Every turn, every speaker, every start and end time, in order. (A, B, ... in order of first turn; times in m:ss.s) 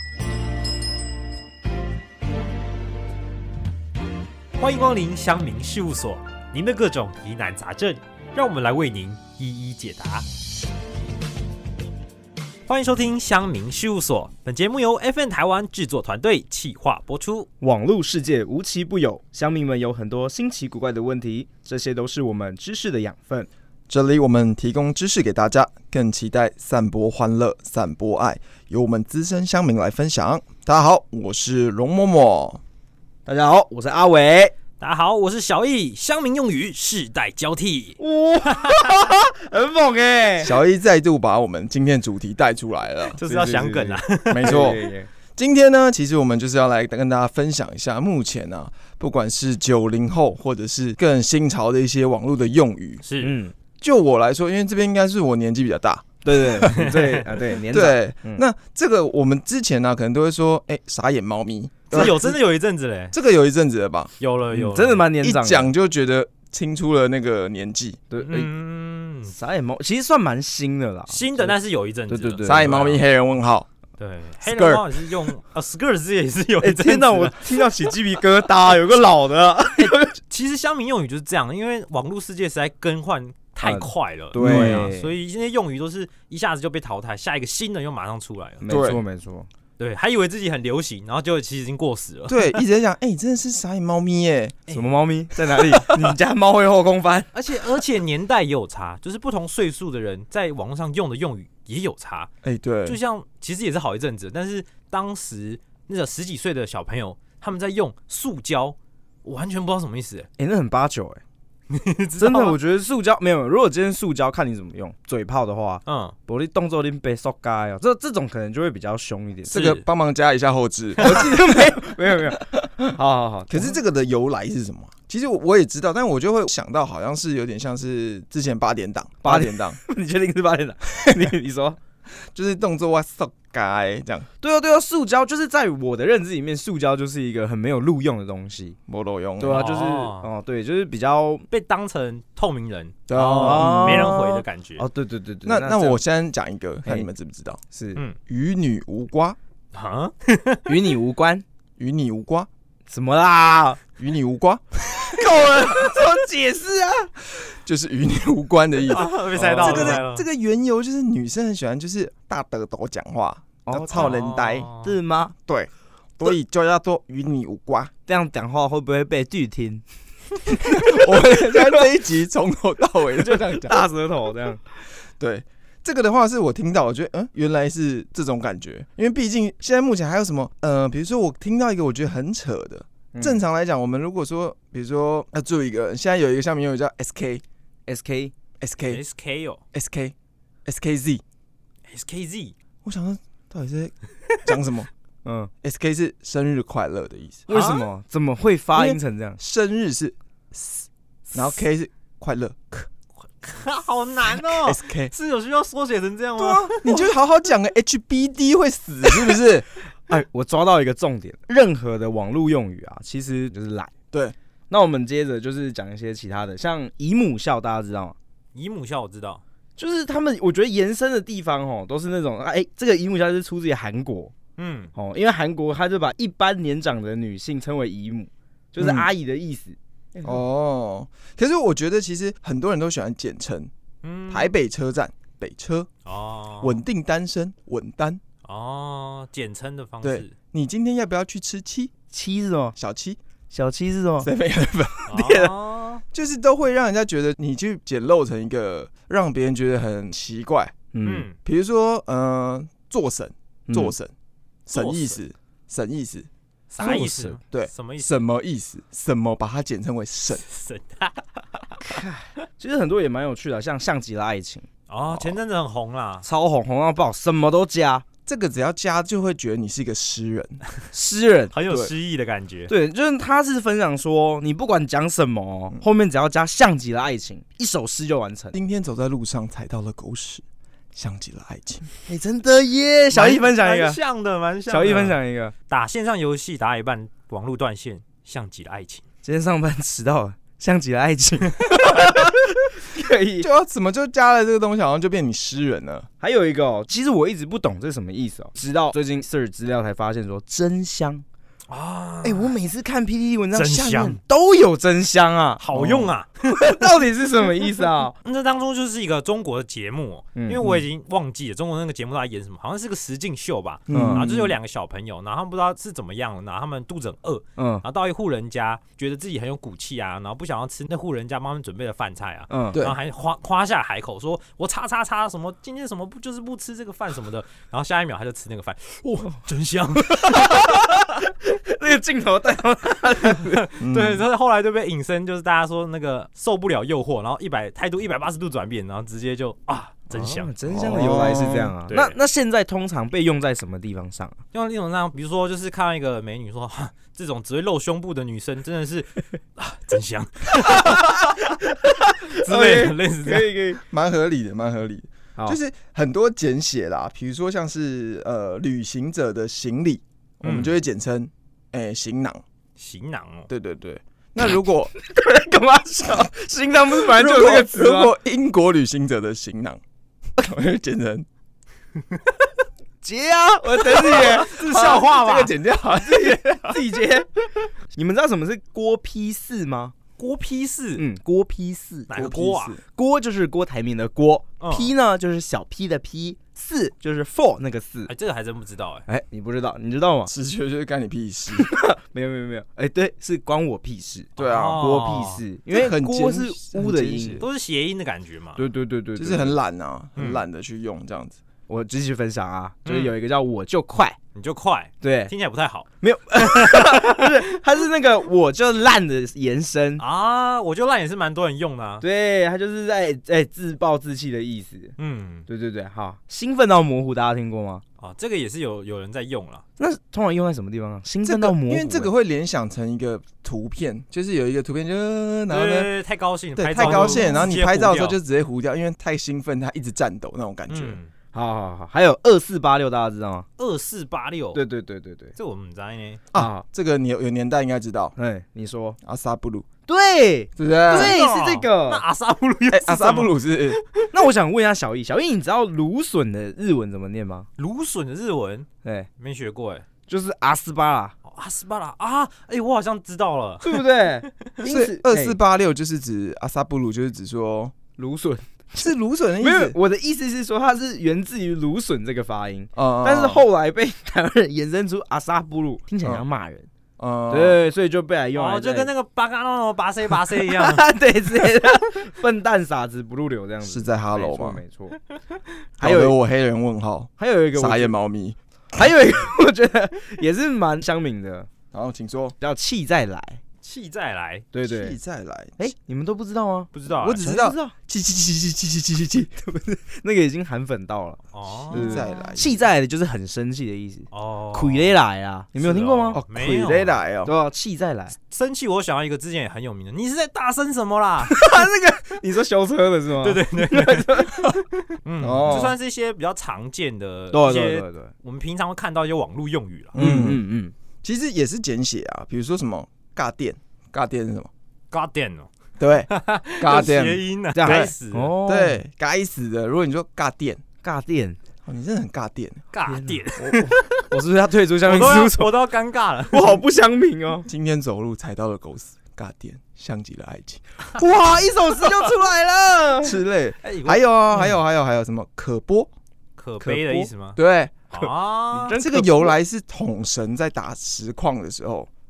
0:04.6-0:10.3 A
0:12.7-0:17.5 A
0:17.6-0:23.5 B
0:23.9-0:32.6 C
0:33.3-0:34.5 B
0:34.8-0:39.0 A
0:38.0-0:40.6 B
0:40.4-0:43.2 C
0:43.1-0:44.8 A
0:43.2-0:45.1 B
0:44.3-0:44.8 C
0:45.4-0:53.0 C
0:53.0-0:53.4 A
0:53.2-0:53.6 B
0:53.8-0:56.1 C
0:56.2-0:58.4 B
0:56.6-0:57.2 A
0:57.7-1:02.4 C
1:01.9-1:03.2 A
1:03.1-1:04.1 C
1:04.2-1:05.0 A
1:04.5-1:05.7 B
1:05.2-1:08.0 C
1:08.1-1:08.5 B
1:08.2-1:09.3 A
1:09.3-1:11.6 B
1:11.1-1:13.0 A
1:12.1-1:12.8 B
1:12.4-1:13.7 C
1:14.0-1:17.6 A
1:14.4-1:15.1 C
1:16.6-1:20.2 B
1:19.8-1:28.6 A
1:23.6-1:25.1 B
1:24.4-1:24.9 C
1:28.6-1:29.5 B
1:28.7-1:29.0 C
1:29.8-1:32.4 A
1:32.3-1:34.6 C
1:34.7-1:37.3 B
1:37.3-1:42.3 A
1:42.4-1:43.0 C
1:42.8-1:50.3 A
1:50.4-1:51.2 B
1:51.7-1:52.6 A
1:52.2-1:59.6 B
1:55.9-1:56.2 A
1:59.5-1:59.8 A
1:59.5-2:02.7 C
2:01.0-2:03.8 B
2:03.5-2:09.8 C
2:09.2-2:11.8 B
2:11.0-2:11.4 C
2:12.2-2:14.3 C
2:14.4-2:18.8 B
2:18.9-2:19.6 C
2:19.4-2:21.5 B
2:19.5-2:20.3 A
2:21.5-2:24.9 A
2:23.1-2:24.2 C
2:23.3-2:26.0 B
2:25.5-2:27.6 C
2:27.7-2:28.0 B
2:28.3-2:29.4 C
2:29.7-2:30.7 A
2:30.7-2:31.4 B
2:31.8-2:32.5 C
2:32.9-2:33.8 B
2:34.0-2:35.2 C
2:35.0-2:37.1 B
2:37.4-2:44.7 C
2:38.9-2:40.2 A
2:39.3-2:40.0 B
2:43.7-2:44.2 B
2:43.9-2:45.0 A
2:44.8-2:45.3 B
2:45.5-2:47.9 C
2:48.1-2:49.8 B
2:50.5-2:51.9 B
2:50.6-2:53.8 C
2:53.2-2:54.6 B
2:55.2-3:07.4 C
3:03.1-3:03.4 B
3:07.9-3:08.3 B
3:08.6-3:09.0 C
3:08.9-3:09.6 A
3:09.7-3:10.1 C
3:10.7-3:11.2 C
3:11.9-3:12.6 A
3:12.8-3:14.9 C
3:15.2-3:15.5 B
3:15.6-3:17.5 C
3:17.5-3:19.4 B
3:17.5-3:17.8 A
3:18.7-3:22.9 C
3:23.4-3:27.0 A
3:24.6-3:25.1 C
3:26.4-3:29.7 C
3:30.1-3:33.9 B
3:34.7-3:38.2 B
3:38.5-3:39.4 A
3:39.8-3:44.3 B
3:44.6-3:44.9 A
3:45.0-3:50.4 B
3:48.8-3:49.1 C
3:50.2-3:53.7 C
3:54.0-3:54.5 A
3:54.3-3:55.9 C
3:56.0-3:56.8 A
3:56.6-3:58.2 C
3:58.4-4:00.3 A
4:00.0-4:01.9 C
4:02.1-4:02.8 B
4:02.8-4:03.2 C
4:03.5-4:04.3 B
4:04.2-4:05.5 C
4:05.1-4:06.0 A
4:06.1-4:10.7 C
4:10.9-4:11.3 B
4:11.0-4:11.4 A
4:11.4-4:14.1 C
4:13.7-4:14.0 B
4:14.7-4:15.2 A
4:14.7-4:16.3 C
4:16.7-4:18.2 A
4:16.8-4:17.4 B
4:17.5-4:20.4 C
4:20.4-4:21.8 A
4:21.8-4:24.7 B
4:24.9-4:26.2 A
4:25.1-4:25.4 C
4:26.2-4:28.0 B
4:28.3-4:30.6 C
4:30.9-4:31.5 B
4:31.5-4:32.7 A
4:32.7-4:38.6 B
4:38.5-4:41.9 C
4:42.0-4:44.0 B
4:43.1-4:45.2 A
4:44.7-4:45.5 B
4:45.7-4:49.0 A
4:49.2-4:53.5 B
4:53.4-4:56.1 C
4:56.2-5:01.2 B
5:01.7-5:02.5 A
5:02.2-5:08.1 B
5:03.5-5:04.2 A
5:05.6-5:06.8 A
5:08.2-5:30.9 A
5:10.4-5:10.8 B
5:13.9-5:14.6 C
5:13.9-5:14.3 B
5:17.6-5:17.8 B
5:22.5-5:22.8 B
5:30.0-5:33.7 B
5:33.4-5:41.2 A
5:33.8-5:34.2 C
5:40.1-5:44.4 B
5:40.7-5:41.8 C
5:41.9-5:42.2 A
5:44.5-5:53.5 A
5:50.7-5:53.8 B
5:53.8-6:02.4 C
6:00.4-6:00.8 A
6:02.8-6:03.5 A
6:03.5-6:04.9 C
6:05.0-6:08.1 B
6:06.9-6:09.8 C
6:10.4-6:11.3 C
6:13.0-6:14.5 B
6:14.0-6:15.5 A
6:14.1-6:16.8 C
6:16.3-6:19.9 B
6:20.2-6:21.0 A
6:21.0-6:22.1 B
6:22.1-6:22.8 A
6:22.1-6:22.8 C
6:22.9-6:28.1 B
6:24.6-6:24.9 A
6:28.1-6:29.0 A
6:29.1-6:30.3 B
6:30.3-6:31.7 C
6:31.5-6:37.4 B
6:34.4-6:34.8 C
6:34.4-6:35.4 A
6:35.7-6:37.5 C
6:37.4-6:38.6 A
6:38.6-6:39.6 B
6:39.2-6:41.4 C
6:40.2-6:40.4 A
6:41.7-6:44.2 B
6:42.9-6:43.1 A
6:44.4-6:45.9 A
6:45.0-6:45.3 B
6:46.0-6:50.0 B
6:46.4-6:47.1 A
6:50.0-6:52.0 A
6:52.0-6:55.0 B
6:55.0-6:55.5 A
6:55.5-6:57.8 B
6:58.0-6:59.6 A
6:59.8-7:02.1 B
7:01.2-7:05.9 C
7:05.5-7:08.2 A
7:06.6-7:11.0 C
7:06.8-7:07.5 B
7:10.7-7:11.1 A
7:11.3-7:13.5 B
7:13.6-7:14.6 A
7:14.5-7:15.4 B
7:15.4-7:16.2 A
7:16.3-7:18.2 C
7:16.3-7:16.6 B
7:18.2-7:19.0 B
7:19.0-7:19.7 C
7:19.9-7:22.0 B
7:20.6-7:21.2 C
7:20.9-7:23.3 A
7:22.7-7:23.8 C
7:24.1-7:27.5 B
7:27.6-7:28.7 A
7:29.2-7:29.8 A
7:30.1-7:31.2 B
7:31.2-7:33.9 A
7:33.6-7:35.4 B
7:34.6-7:37.8 C
7:38.0-7:46.7 B
7:38.8-7:39.8 C
7:42.8-7:43.4 C
7:47.0-7:47.6 C
7:47.3-7:48.9 B
7:48.3-7:50.8 A
7:50.3-7:55.0 B
7:53.6-7:54.6 C
7:55.8-7:56.2 B
7:55.8-7:58.4 C
7:57.2-7:58.0 B
7:58.8-8:01.5 B
8:01.7-8:02.4 C
8:02.4-8:03.4 B
8:03.6-8:04.5 A
8:04.5-8:05.0 B
8:04.6-8:05.6 C
8:05.6-8:07.7 B
8:06.7-8:07.3 A
8:06.9-8:09.3 C
8:09.4-8:16.2 B
8:11.3-8:12.0 A
8:11.7-8:12.6 C
8:14.1-8:15.0 A
8:15.6-8:17.0 A
8:16.1-8:17.3 C
8:17.2-8:18.2 B
8:18.3-8:21.5 A
8:21.2-8:24.5 B
8:23.2-8:30.0 A
8:25.2-8:25.8 C
8:27.3-8:28.1 B
8:29.9-8:30.4 C
8:30.0-8:30.7 B
8:31.0-8:34.5 C
8:34.9-8:35.5 A
8:35.8-8:37.9 C
8:36.1-8:38.3 A
8:37.5-8:38.8 B
8:38.4-8:40.6 C
8:40.8-8:41.4 B
8:41.6-8:42.6 C
8:42.7-8:44.1 A
8:42.9-8:45.5 B
8:44.8-8:46.6 A
8:46.3-8:47.5 B
8:47.5-8:50.6 C
8:51.0-8:53.2 B
8:53.0-8:55.9 C
8:53.6-8:54.0 A
8:56.4-8:57.4 A
8:56.6-8:57.1 B
8:57.4-8:58.1 C
8:57.9-8:58.8 A
8:58.5-8:59.3 B
8:58.7-9:01.9 C